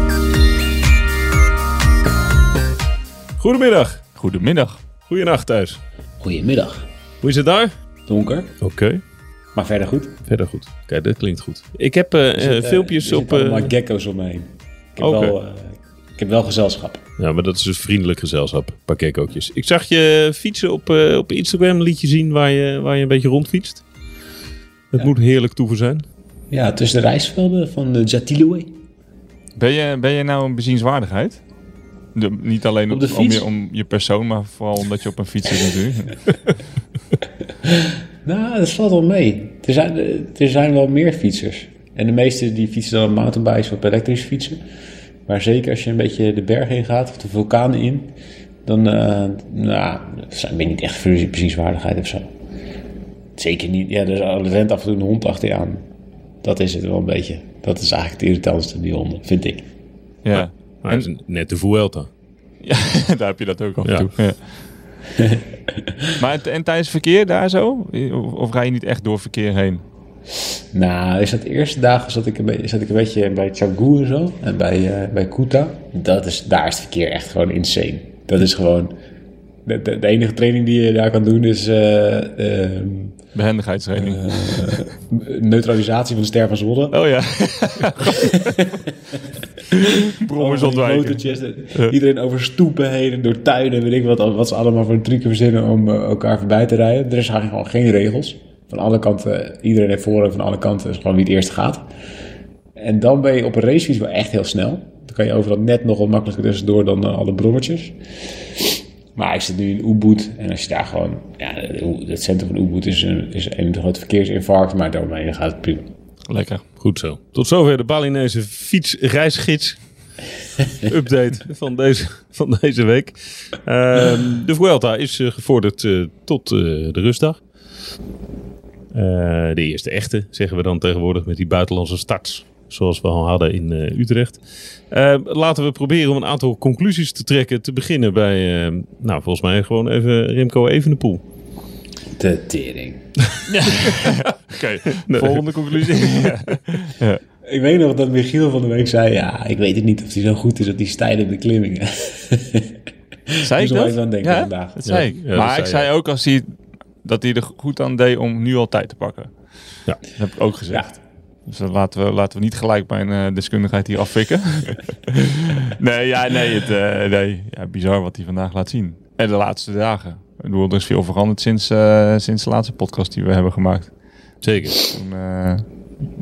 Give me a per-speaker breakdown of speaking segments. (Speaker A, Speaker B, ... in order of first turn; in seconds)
Speaker A: 3.4-4.0, 5.0-5.8, 7.2-7.7, 8.6-9.0, 10.3-13.7, 15.0-15.3, 17.2-23.8, 24.9-26.1, 60.3-62.1, 116.8-120.1, 120.8-127.4, 128.9-141.2, 144.9-146.3, 154.8-155.9, 174.4-174.8
Speaker B: 4.2-4.8, 29.6-31.4, 32.1-36.3, 60.2-61.1, 62.6-64.4, 66.2-69.8, 83.3-84.8, 86.9-88.4, 89.7-91.9, 116.3-116.6, 143.5-147.2, 153.4-159.3, 160.1-173.9, 174.6-175.7
Speaker C: 6.2-6.9, 8.1-8.6, 9.5-10.2, 12.4-17.0, 26.5-28.7, 32.9-33.5, 37.6-44.6, 45.3-48.1, 48.6-52.3, 53.4-55.8, 56.4-59.6, 65.2-66.1, 70.7-78.9, 79.6-83.2, 84.0-87.0, 88.1-89.2, 90.2-101.8, 102.8-108.0, 109.2-115.9, 142.2-143.1, 147.4-152.8, 153.3-154.8